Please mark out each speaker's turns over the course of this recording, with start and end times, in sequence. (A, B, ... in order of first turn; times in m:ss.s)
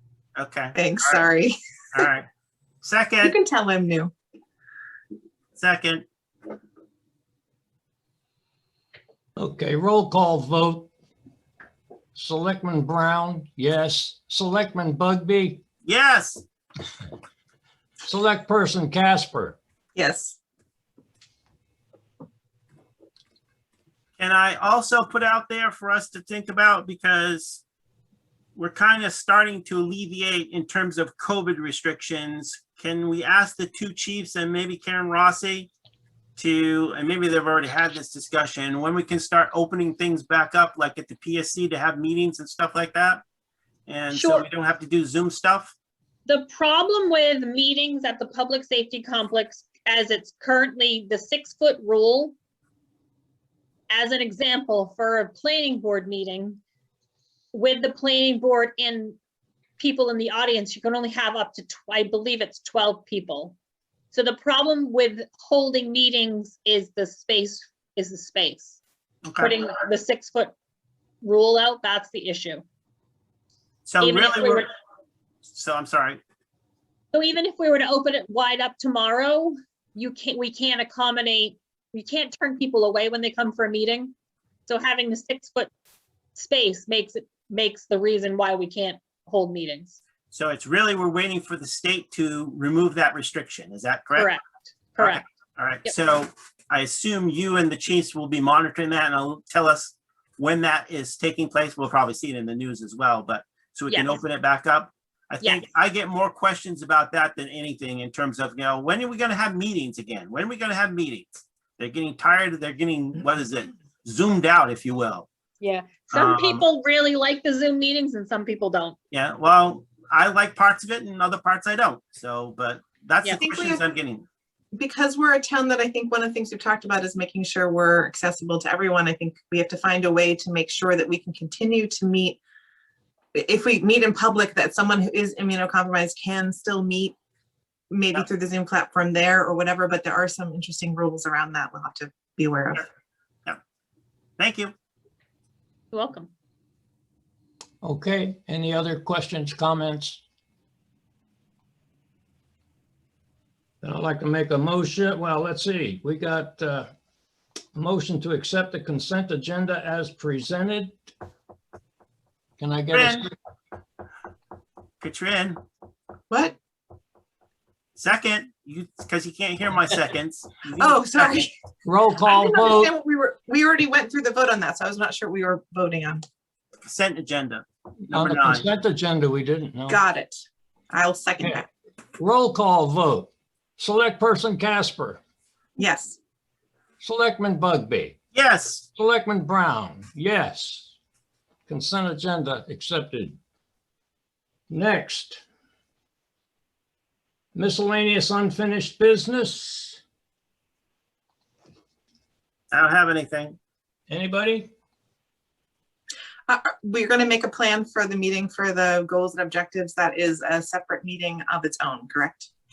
0:00.4-0:01.3 A
0:00.7-0:01.5 B
0:01.9-0:02.3 A
0:02.8-0:03.4 A
0:03.2-0:04.1 B
0:05.6-0:06.0 A
0:09.4-0:10.9 C
0:12.1-0:15.6 C
0:15.8-0:16.4 A
0:18.0-0:19.6 C
0:19.9-0:20.4 B
0:24.2-0:27.6 A
0:28.6-0:35.7 A
0:36.4-0:43.2 A
0:43.9-0:45.7 A
0:44.1-0:44.4 D
0:46.2-0:52.4 D
0:53.9-0:56.6 D
0:57.5-0:59.2 D
0:59.8-1:03.6 D
1:04.1-1:08.8 D
1:09.3-1:09.6 A
1:09.4-1:10.5 D
1:11.2-1:12.6 D
1:13.8-1:14.6 A
1:14.0-1:14.6 D
1:15.5-1:16.2 A
1:17.1-1:24.1 D
1:24.7-1:25.7 D
1:26.3-1:30.0 D
1:30.3-1:34.3 A
1:34.2-1:35.2 D
1:35.0-1:55.3 A
1:43.9-1:44.2 D
1:55.6-1:59.0 D
1:56.1-1:56.6 A
1:59.1-2:04.2 A
2:03.4-2:03.8 B
2:04.7-2:12.4 B
2:13.3-2:17.2 B
2:17.9-2:22.8 B
2:24.4-2:24.7 A
2:25.9-2:26.3 D
2:27.8-2:30.2 C
2:33.8-2:36.9 C
2:37.7-2:41.0 C
2:42.6-2:43.3 C
2:42.9-2:43.2 A
2:45.0-2:45.6 A
2:46.3-2:46.6 B
2:48.0-2:51.5 A
2:50.8-2:51.5 B
2:51.8-2:52.9 C
2:52.2-2:56.2 B
2:56.8-2:58.7 A
2:58.1-3:00.0 C
2:59.9-3:01.6 B
3:02.2-3:05.2 C
3:05.8-3:06.2 B
3:07.0-3:08.2 C
3:08.3-3:08.9 A
3:09.0-3:10.9 C
3:11.7-3:13.4 C
3:14.7-3:15.4 C
3:17.5-3:20.0 C
3:22.7-3:23.6 A
3:24.1-3:24.7 C
3:26.5-3:32.5 B